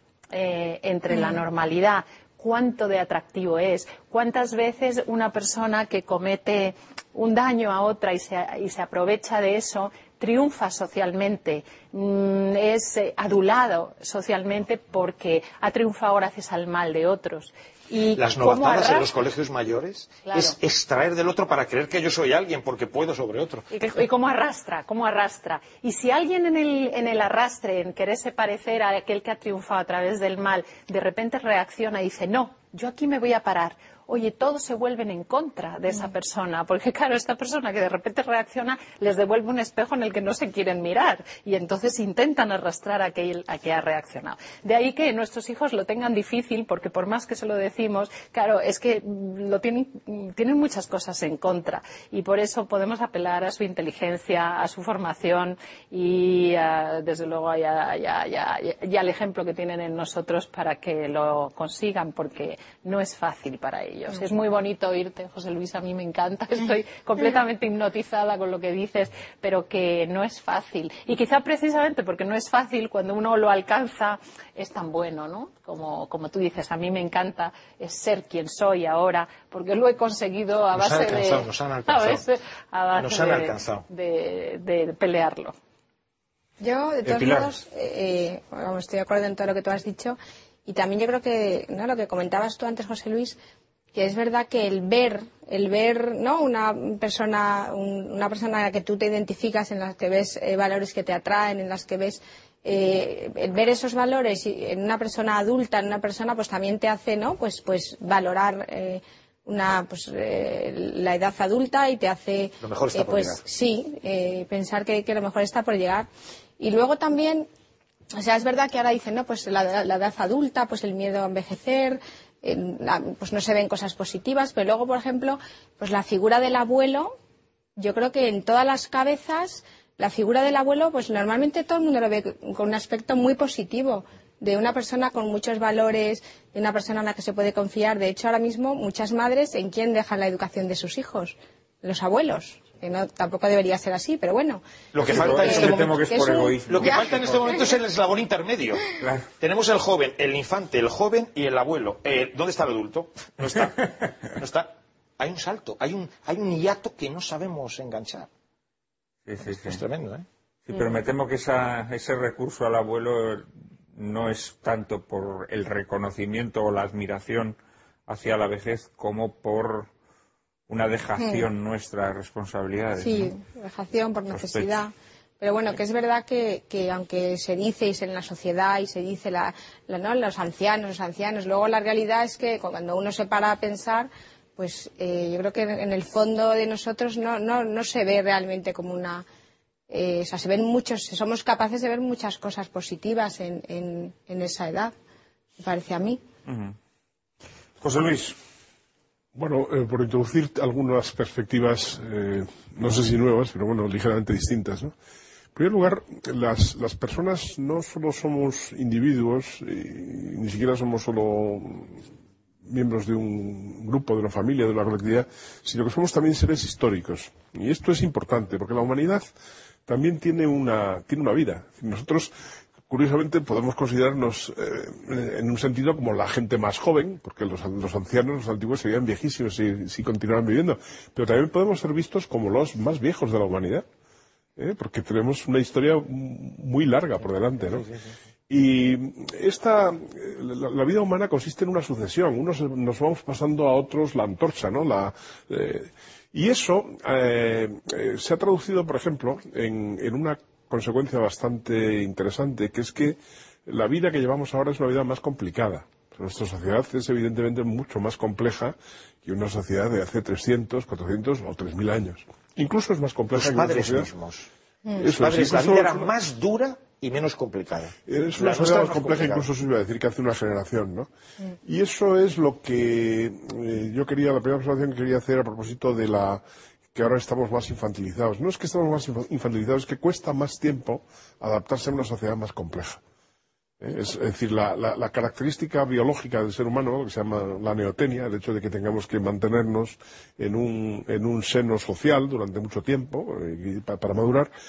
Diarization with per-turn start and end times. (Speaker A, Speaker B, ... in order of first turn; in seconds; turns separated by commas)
Speaker A: 0.3-19.1, Speaker B: 18.1-23.7, Speaker A: 20.2-20.6, Speaker A: 23.7-85.5, Speaker B: 80.7-82.2, Speaker B: 83.0-83.8, Speaker C: 86.6-93.4, Speaker D: 87.0-87.5, Speaker C: 93.9-116.1, Speaker B: 112.6-113.4, Speaker C: 116.6-117.5, Speaker C: 118.1-127.1, Speaker C: 127.8-147.7, Speaker B: 144.9-145.9, Speaker D: 145.0-147.5, Speaker B: 146.7-148.8, Speaker D: 149.0-149.2, Speaker B: 149.4-158.3, Speaker D: 159.3-159.8, Speaker B: 159.5-160.2, Speaker D: 160.7-169.9, Speaker D: 170.7-173.3, Speaker C: 171.2-171.5, Speaker C: 172.9-189.2, Speaker D: 174.3-174.8, Speaker C: 189.9-194.9, Speaker C: 195.6-196.2, Speaker D: 196.5-196.7, Speaker D: 197.8-198.4, Speaker E: 199.3-204.9, Speaker E: 205.5-212.0, Speaker E: 212.6-219.2, Speaker E: 219.9-222.3, Speaker E: 222.9-233.8, Speaker E: 234.6-237.9, Speaker B: 237.8-238.1, Speaker E: 238.5-264.1, Speaker B: 263.3-264.5, Speaker E: 265.0-266.1, Speaker B: 265.0-269.5, Speaker E: 268.1-271.1, Speaker E: 271.6-276.4, Speaker E: 276.9-283.0, Speaker E: 283.8-294.5